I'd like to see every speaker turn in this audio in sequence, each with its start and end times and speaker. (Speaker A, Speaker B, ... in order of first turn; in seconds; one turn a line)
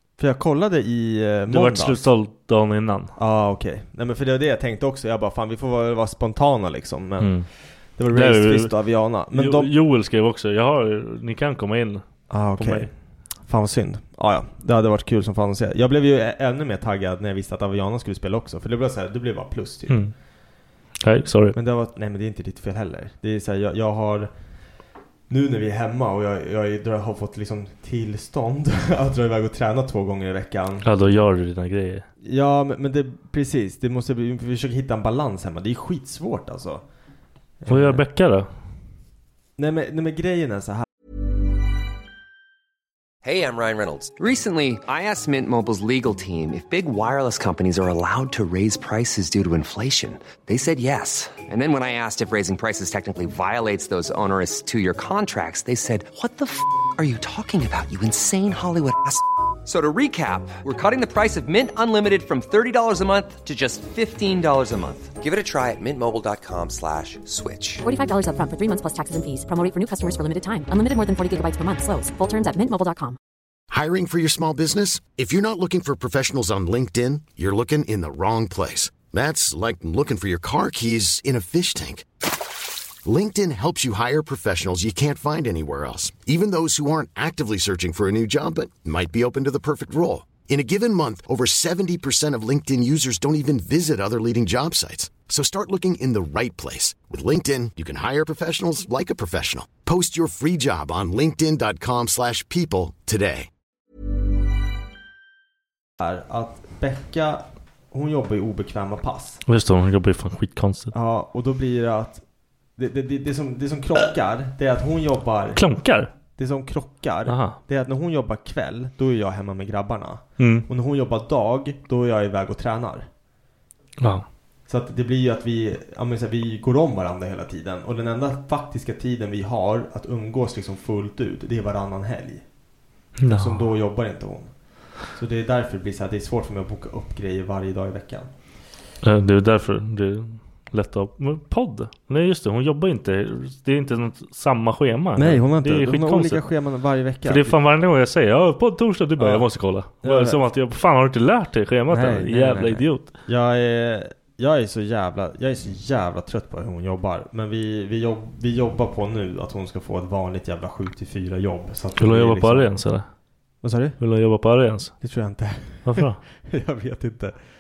Speaker A: 0.2-2.1
Speaker B: 1.5-3.1
Speaker A: 3.2-9.7
Speaker B: 7.2-7.5
Speaker B: 8.1-8.7
Speaker B: 9.3-12.9
Speaker A: 12.3-12.9
Speaker A: 13.5-20.0
Speaker B: 21.0-21.6
Speaker A: 21.5-24.3
Speaker A: 25.3-30.9
Speaker B: 30.8-32.1
Speaker A: 32.2-36.9
Speaker A: 37.6-38.0
Speaker B: 37.7-38.5
Speaker A: 39.6-40.9
Speaker C: 43.2-67.8
Speaker D: 67.8-73.2
Speaker E: 73.7-82.2
Speaker E: 83.0-103.5
Speaker A: 106.0-109.4
Speaker B: 109.5-110.9
Speaker A: 110.9-112.2
Speaker A: 112.8-115.6
Speaker B: 115.5-116.1
Speaker A: 116.4-123.1
Speaker B: 117.3-117.6
Speaker B: 120.4-120.7
Speaker B: 124.0-124.3
Speaker A: 124.7-132.4
Speaker B: 133.2-133.6
Speaker A: 133.3-138.3
Speaker B: 139.0-146.5
Speaker A: 145.2-147.6
Speaker B: 147.2-153.1
Speaker A: 149.2-150.4
Speaker A: 151.9-162.7
Speaker B: 162.0-163.1
Speaker A: 163.6-164.0
Speaker B: 164.0-164.9
Speaker A: 165.0-167.4
Speaker B: 165.8-166.2